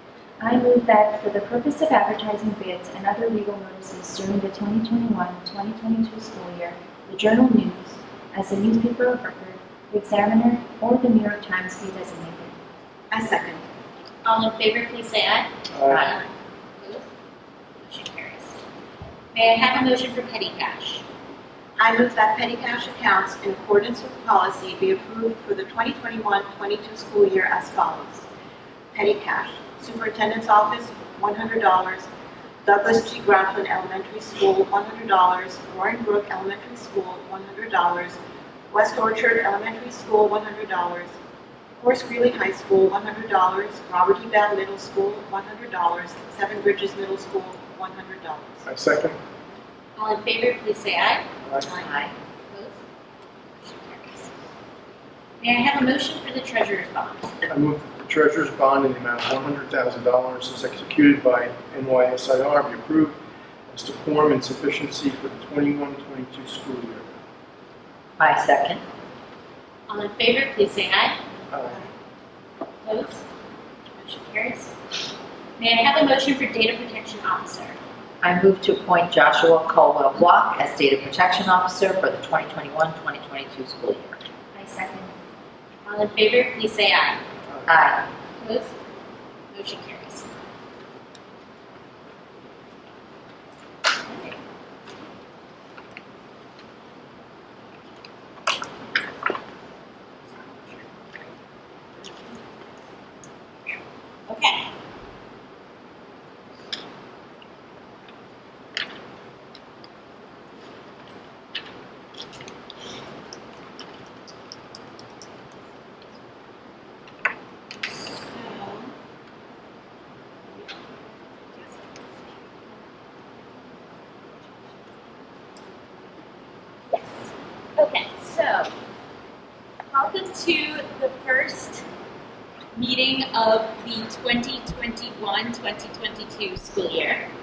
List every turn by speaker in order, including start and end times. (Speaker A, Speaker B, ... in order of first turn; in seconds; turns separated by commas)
Speaker A: 0.4-12.6, Speaker B: 13.1-13.6, Speaker C: 14.2-16.3, Speaker D: 15.7-16.1, Speaker E: 15.9-16.1, Speaker C: 16.8-17.1, Speaker C: 17.8-18.6, Speaker C: 19.3-21.0, Speaker B: 21.8-28.3, Speaker B: 28.9-32.1, Speaker B: 32.6-38.2, Speaker B: 38.7-41.1, Speaker B: 41.8-48.7, Speaker D: 48.7-49.2, Speaker C: 50.0-51.2, Speaker E: 51.6-52.1, Speaker C: 52.5-52.8, Speaker C: 53.6-54.3, Speaker C: 55.4-57.4, Speaker D: 57.5-63.2, Speaker D: 63.7-67.1, Speaker E: 68.2-68.8, Speaker C: 69.9-71.2, Speaker D: 71.5-71.8, Speaker C: 72.8-73.2, Speaker C: 74.0-74.7, Speaker C: 75.6-77.8, Speaker E: 78.2-84.2, Speaker A: 84.5-85.1, Speaker C: 85.9-87.2, Speaker E: 87.7-88.1, Speaker C: 88.4-88.7, Speaker C: 89.5-90.3, Speaker C: 94.0-94.4, Speaker C: 104.3-104.7, Speaker C: 117.9-118.9, Speaker C: 126.9-128.7, Speaker C: 129.9-131.8, Speaker C: 132.8-137.3